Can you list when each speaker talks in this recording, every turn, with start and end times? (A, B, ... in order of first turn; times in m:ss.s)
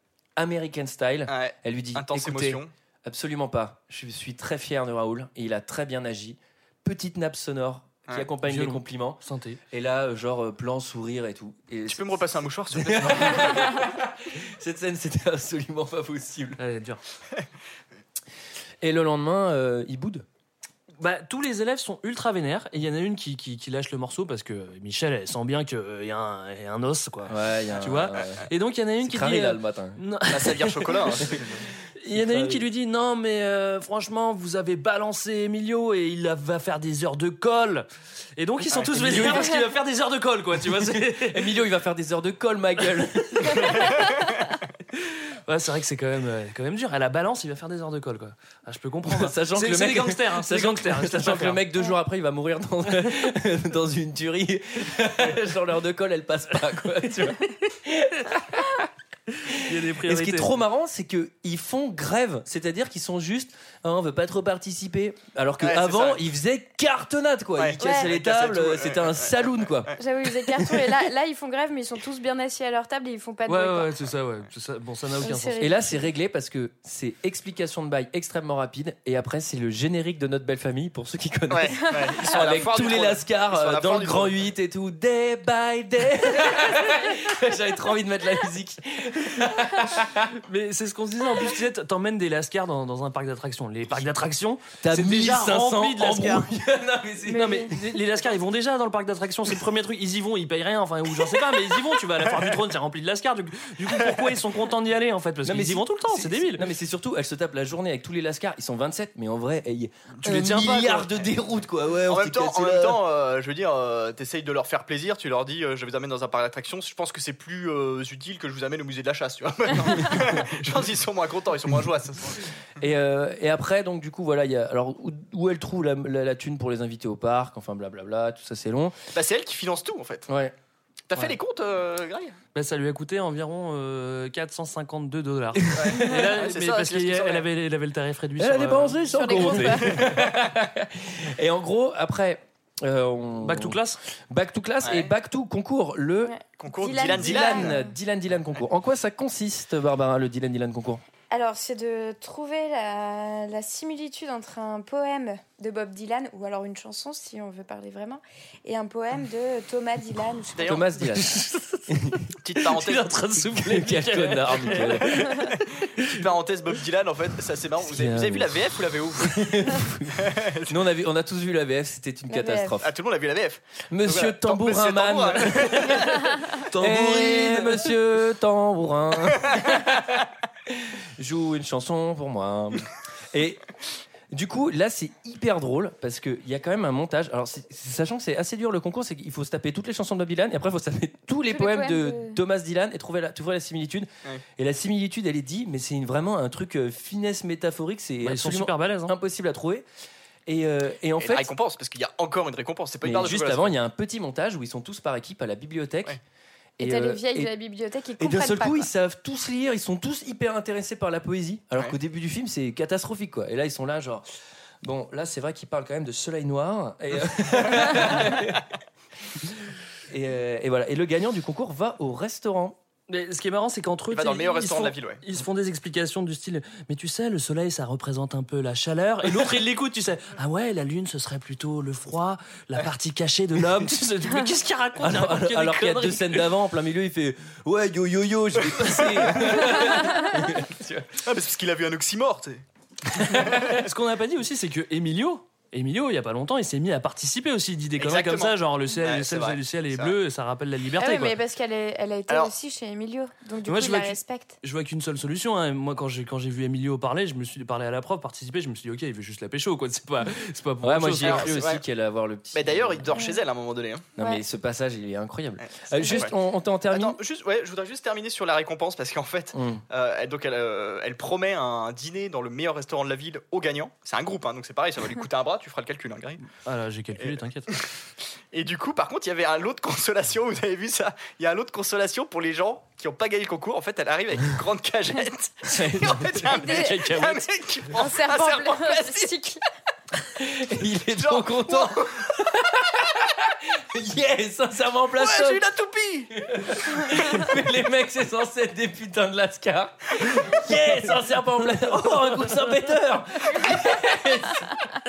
0:00.4-0:09.2 A
0:01.3-0:02.7 B
0:08.4-0:09.6 C
0:09.7-0:16.6 A
0:11.9-0:13.8 B
0:16.6-0:17.0 C
0:18.8-0:20.2 A
0:21.0-0:31.3 C
0:27.3-0:28.5 A
0:29.0-0:30.0 A
0:30.3-0:31.6 B
0:32.0-0:37.8 C
0:32.1-0:32.6 A
0:38.4-0:41.5 C
0:38.9-0:39.5 A
0:40.9-0:43.8 A
0:43.4-0:43.7 C
0:45.5-0:51.6 C
0:49.1-0:58.8 A
0:59.5-1:09.9 A
0:59.6-1:00.5 C
1:05.6-1:06.2 B
1:07.6-1:09.9 B
1:07.8-1:08.1 D
1:10.0-1:13.9 D
1:13.5-1:15.6 C
1:15.2-1:16.0 D
1:15.6-1:30.2 A
1:21.5-1:24.4 B
1:30.4-1:36.5 C
1:34.8-1:37.9 A
1:37.3-1:37.7 D
1:37.3-1:46.6 C
1:45.4-1:53.0 A
1:50.2-1:51.1 C
1:52.1-2:02.5 B
2:02.8-2:09.0 A
2:09.1-2:10.3 B
2:10.3-2:10.5 A
2:11.1-2:12.4 B
2:12.5-2:19.8 C
2:15.8-2:17.4 B
2:18.4-2:23.8 A
2:19.1-2:20.0 D
2:20.0-2:20.2 B
2:23.4-2:24.0 C
2:24.3-2:26.3 A
2:24.8-2:25.1 B
2:26.2-2:27.8 D
2:26.6-2:27.7 B
2:27.0-2:31.0 A
2:31.3-2:40.8 D
2:40.6-2:40.8 B
2:40.6-2:42.3 A
2:41.2-2:41.8 C
2:42.4-2:43.1 B
2:42.6-2:45.6 C
2:43.4-2:45.2 A
2:46.0-2:49.7 B
2:47.8-2:48.5 C
2:49.3-2:52.9 A
2:50.2-2:50.7 B
2:52.3-2:52.8 D
2:52.8-2:56.3 B
2:53.9-2:56.0 A
2:56.7-2:57.9 C
2:56.7-3:00.1 A
3:01.2-3:03.6 A
3:04.3-3:19.8 A
3:11.5-3:12.4 D
3:18.2-3:19.1 C
3:20.5-3:21.5 A
3:21.2-3:23.7 B
3:23.0-3:26.1 A
3:26.8-3:28.9 D
3:26.8-3:27.5 A
3:28.2-3:34.2 A
3:34.8-3:38.6 A
3:40.1-3:42.8 A
3:43.1-3:56.5 C
3:44.1-3:45.2 B
3:55.0-4:01.0 A
3:58.8-3:59.6 B
4:01.2-4:02.6 B
4:03.2-4:03.7 B
4:03.6-4:11.4 C
4:08.0-4:10.1 B
4:11.0-4:14.6 D
4:12.3-4:12.5 B
4:13.6-4:21.5 C
4:20.8-4:23.2 A
4:21.2-4:21.8 B
4:22.5-4:24.0 B
4:24.2-4:27.2 A
4:25.6-4:26.3 B
4:26.9-4:36.4 B
4:29.5-4:29.8 A
4:36.6-4:37.7 C
4:37.2-4:37.8 B
4:38.5-4:49.4 B
4:45.7-4:46.4 A
4:46.5-4:47.0 D
4:46.6-4:47.4 C
4:48.0-4:49.6 D
4:50.4-4:55.6 A
4:51.1-4:52.3 B
4:55.2-4:56.3 B
4:56.4-5:04.8 A